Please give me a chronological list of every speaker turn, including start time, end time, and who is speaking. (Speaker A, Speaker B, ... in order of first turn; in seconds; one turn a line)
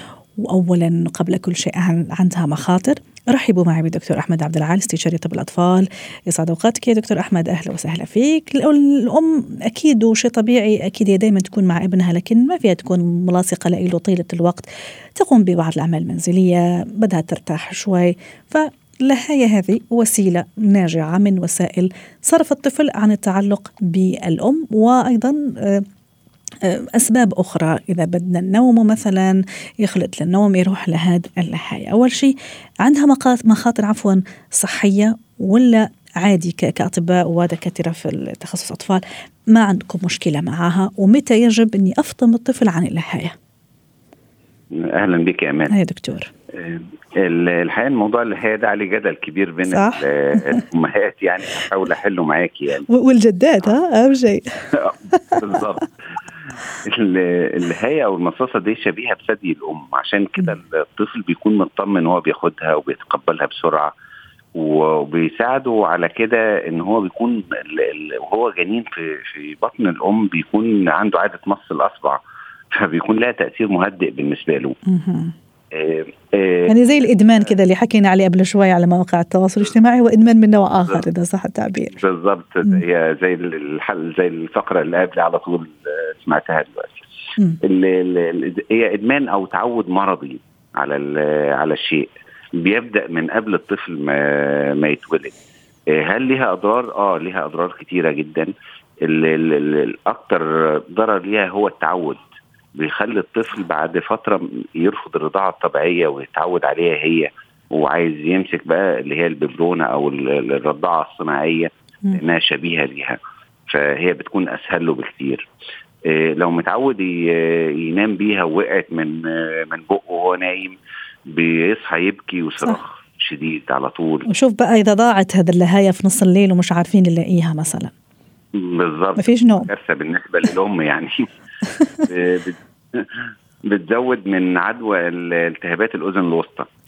Speaker A: 0.4-25.9
Speaker A: 26.6-43.4
Speaker B: 44.7-45.8
Speaker A: 45.7-46.3
Speaker B: 46.5-52.9
Speaker A: 49.7-50.6
Speaker A: 52.9-55.4
Speaker B: 54.7-55.9
Speaker B: 56.9-63.9
Speaker B: 64.5-74.8
Speaker A: 74.9-75.3
Speaker B: 75.7-76.8
Speaker A: 76.7-82.0
Speaker B: 82.0-95.3
Speaker B: 95.9-98.5
Speaker B: 99.0-102.2
Speaker B: 102.8-115.5
Speaker B: 116.0-124.3
Speaker A: 124.3-127.9
Speaker B: 128.6-131.2
Speaker A: 129.2-129.7
Speaker A: 131.7-132.1
Speaker B: 132.1-136.7